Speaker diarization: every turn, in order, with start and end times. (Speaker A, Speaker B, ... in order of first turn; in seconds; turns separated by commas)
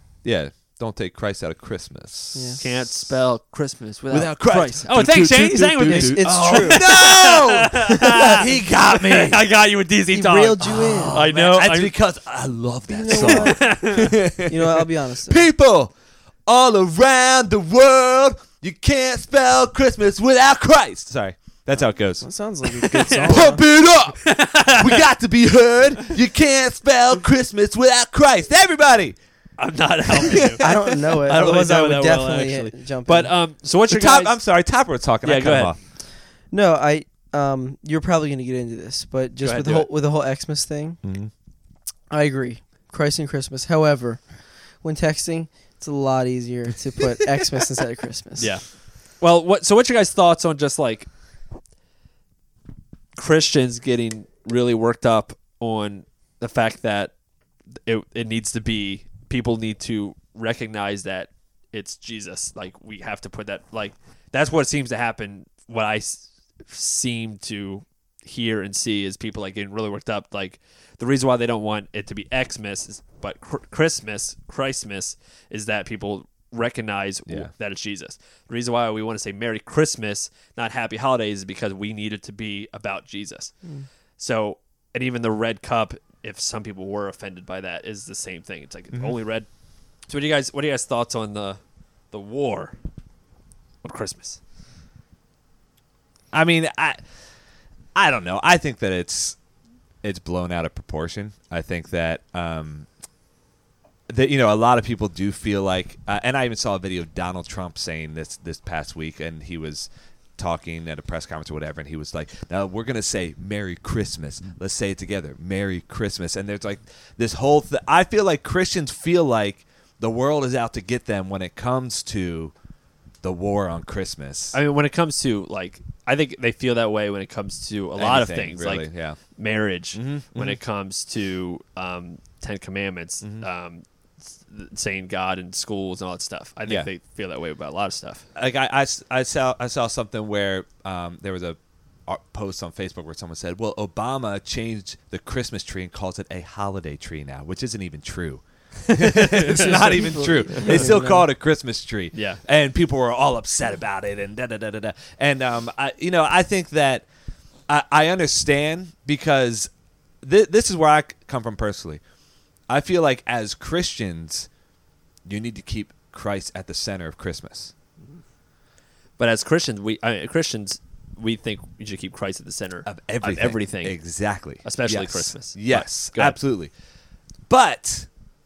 Speaker A: 0.2-2.9, Speaker B: 2.4-2.6, Speaker C: 2.6-11.9, Speaker A: 4.1-9.4, Speaker B: 5.8-7.0, Speaker B: 8.1-8.4, Speaker B: 10.1-11.2, Speaker A: 10.7-15.9, Speaker B: 12.9-15.4, Speaker C: 13.1-14.1, Speaker A: 16.5-22.3, Speaker B: 22.2-23.6, Speaker A: 22.9-29.2, Speaker C: 22.9-23.5, Speaker C: 24.2-25.1, Speaker C: 29.6-34.4, Speaker A: 30.1-31.2, Speaker B: 30.6-33.3, Speaker A: 33.9-35.8, Speaker C: 35.2-35.7, Speaker B: 36.5-41.0, Speaker C: 39.4-39.9, Speaker A: 41.0-41.3, Speaker B: 42.1-44.2, Speaker B: 44.8-48.5, Speaker C: 48.4-48.6, Speaker C: 49.2-51.1, Speaker C: 53.2-57.1, Speaker C: 57.9-83.5, Speaker C: 84.2-89.5, Speaker C: 90.1-91.6, Speaker C: 92.1-92.8, Speaker C: 93.8-94.4, Speaker A: 96.3-97.0, Speaker A: 98.0-99.4, Speaker A: 100.0-102.9, Speaker A: 104.1-122.5, Speaker A: 123.2-124.6, Speaker C: 124.5-138.2, Speaker A: 128.0-129.2, Speaker A: 129.9-130.6, Speaker A: 138.4-157.1, Speaker C: 148.9-150.0, Speaker B: 149.6-151.3, Speaker C: 152.1-152.4, Speaker A: 157.7-159.7, Speaker A: 160.2-162.0, Speaker A: 162.7-164.5, Speaker A: 165.3-167.7, Speaker C: 169.2-174.0, Speaker A: 172.8-176.7, Speaker C: 174.6-176.4, Speaker A: 177.5-178.1